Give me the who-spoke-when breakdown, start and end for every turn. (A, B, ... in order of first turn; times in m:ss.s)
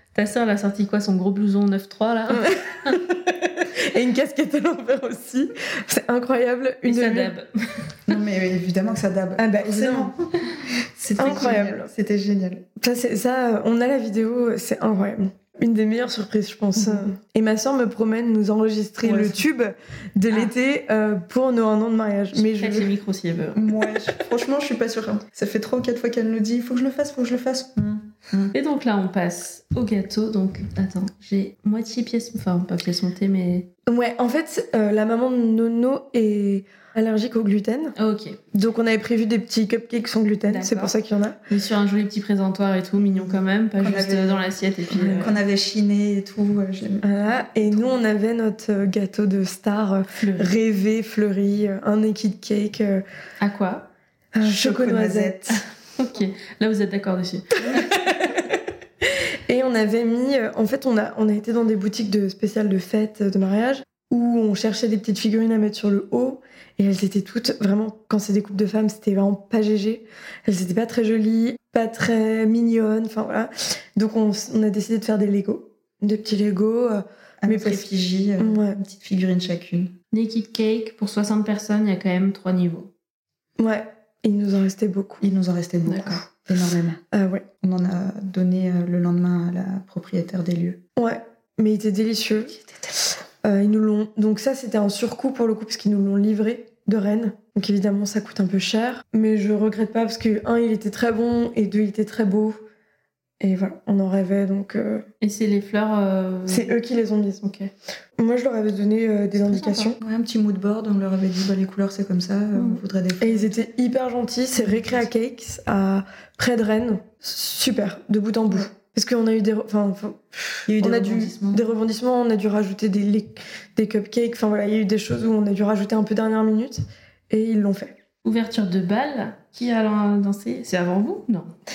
0:00.1-0:03.0 A
0:02.3-0:07.3 B
0:06.9-0:07.8 A
0:08.1-0:12.6 C
0:09.4-0:10.1 B
0:11.2-0:11.9 B
0:12.8-0:22.9 B
0:19.0-0:19.4 C
0:22.3-0:23.7 A
0:23.6-0:28.5 C
0:28.5-0:33.7 A
0:33.9-0:38.0 B
0:38.0-0:38.4 A
0:38.5-0:41.4 B
0:40.5-0:40.9 A
0:41.5-0:45.4 A
0:43.1-0:48.0 C
0:47.0-0:53.0 B
0:50.2-0:50.5 A
0:53.4-0:53.9 A
0:54.3-0:55.5 B
0:54.4-0:55.6 C
0:55.5-0:58.1 A
0:57.8-0:58.5 B
0:59.0-1:17.9 B
1:17.4-1:19.9 C
1:18.4-1:18.8 B
1:20.1-1:22.9 A
1:23.6-1:25.2 B
1:25.2-1:27.0 C
1:25.9-1:26.2 A
1:27.1-1:27.4 B
1:27.6-1:30.8 C
1:31.0-1:32.6 B
1:33.4-1:42.6 B
1:43.4-1:45.0 B
1:45.2-1:46.8 A
1:46.5-1:47.4 B
1:47.4-1:47.7 A
1:48.2-1:50.0 B
1:49.4-1:50.0 A
1:50.0-1:53.6 C
1:52.6-1:52.8 A
1:53.2-2:07.9 B
1:54.6-1:55.0 A
2:00.7-2:01.6 C
2:08.2-2:11.5 A